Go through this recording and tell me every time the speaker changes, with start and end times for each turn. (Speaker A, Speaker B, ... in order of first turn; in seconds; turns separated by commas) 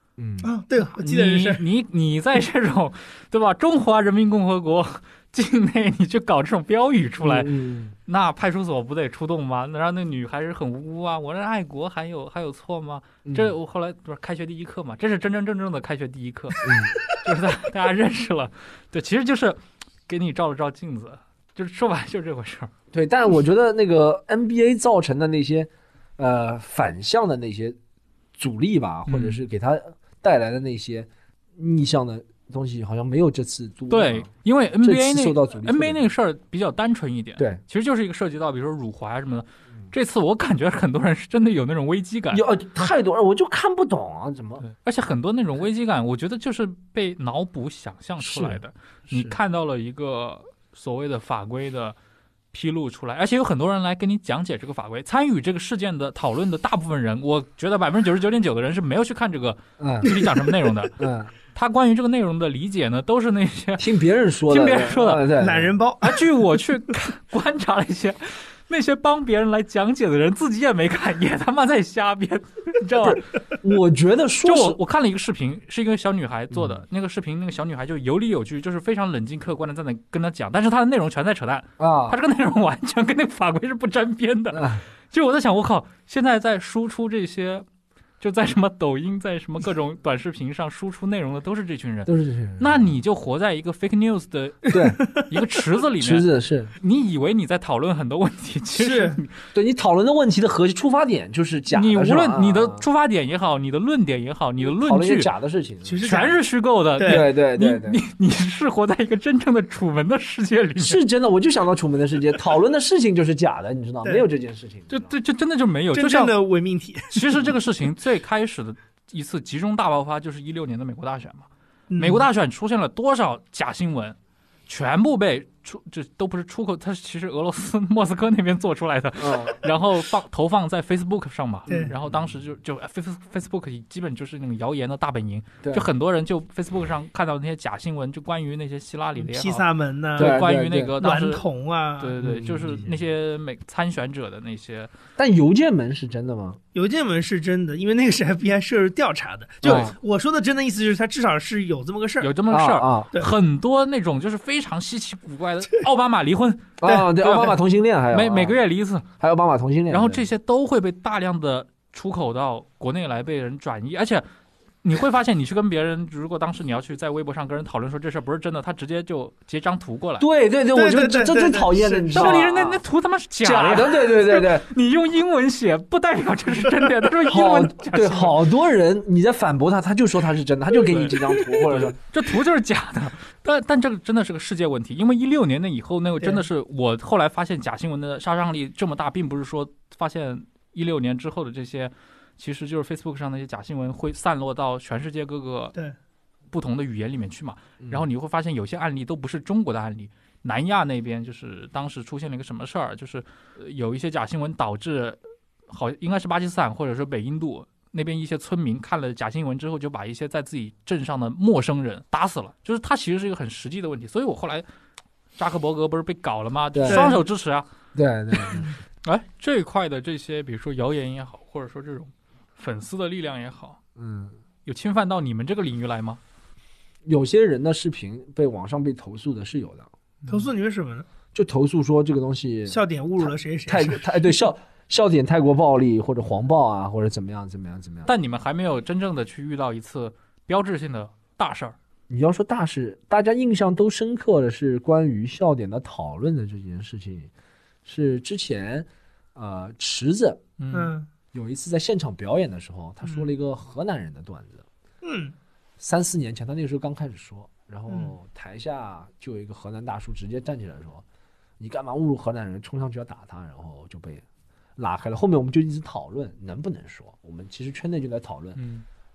Speaker A: 0.2-0.5, Speaker B: 0.4-1.6, Speaker C: 1.0-7.5, Speaker A: 7.2-8.0, Speaker C: 8.1-22.7, Speaker A: 13.2-13.5, Speaker A: 16.6-17.0, Speaker A: 22.9-27.8, Speaker A: 28.4-34.3, Speaker C: 29.1-29.4, Speaker C: 33.9-42.5, Speaker A: 34.8-36.1, Speaker A: 42.3-44.6, Speaker C: 44.6-52.0, Speaker A: 48.2-49.4, Speaker C: 52.5-61.0, Speaker A: 59.8-60.1, Speaker A: 61.0-61.3, Speaker C: 61.5-63.9, Speaker A: 63.8-65.8, Speaker C: 64.5-65.3, Speaker B: 65.4-66.2, Speaker C: 66.0-73.2, Speaker A: 73.0-74.8, Speaker C: 74.4-87.7, Speaker A: 76.5-76.8, Speaker A: 81.8-82.2, Speaker A: 84.5-84.8, Speaker C: 88.2-99.4, Speaker A: 92.1-92.9, Speaker A: 94.7-95.2, Speaker A: 96.0-96.7, Speaker B: 98.8-99.2, Speaker A: 99.5-102.8, Speaker C: 101.7-105.3, Speaker A: 104.6-106.1, Speaker B: 105.8-106.4, Speaker C: 106.0-111.0, Speaker B: 107.0-107.3, Speaker A: 107.0-108.0, Speaker A: 110.8-115.1, Speaker C: 114.9-116.4, Speaker B: 115.9-117.2, Speaker C: 117.1-139.7, Speaker B: 121.9-122.3, Speaker A: 129.2-129.6, Speaker B: 131.7-131.9, Speaker B: 139.2-140.4, Speaker C: 140.2-141.5, Speaker A: 140.2-140.9, Speaker B: 141.0-142.2, Speaker C: 142.0-144.9, Speaker A: 142.2-142.9, Speaker A: 145.2-146.6, Speaker B: 146.8-152.3, Speaker A: 149.6-150.0, Speaker C: 152.2-157.6, Speaker A: 152.5-153.1, Speaker A: 156.8-158.6, Speaker B: 156.8-157.1, Speaker C: 158.1-159.1, Speaker A: 159.2-160.3, Speaker C: 159.9-164.2, Speaker C: 164.8-170.3, Speaker A: 170.2-172.8, Speaker B: 170.7-172.4, Speaker C: 172.1-178.4, Speaker A: 173.4-174.7, Speaker A: 177.3-182.0, Speaker C: 180.9-195.8, Speaker C: 196.5-214.7, Speaker A: 197.8-198.1, Speaker C: 215.4-217.7, Speaker A: 216.7-217.1, Speaker B: 216.9-217.2, Speaker A: 217.9-218.7, Speaker C: 218.3-223.8, Speaker A: 224.0-224.4, Speaker C: 224.7-226.2, Speaker A: 227.1-229.9, Speaker B: 230.3-231.1, Speaker A: 231.3-238.1, Speaker B: 232.7-234.2, Speaker C: 238.1-241.8, Speaker A: 242.1-247.3, Speaker A: 247.8-250.4, Speaker C: 250.6-250.9, Speaker B: 250.7-251.1, Speaker A: 251.3-254.7, Speaker B: 253.0-253.3, Speaker B: 255.0-255.3, Speaker A: 255.8-261.0, Speaker B: 257.9-258.1, Speaker A: 261.6-264.2, Speaker A: 264.8-268.6, Speaker C: 268.6-268.9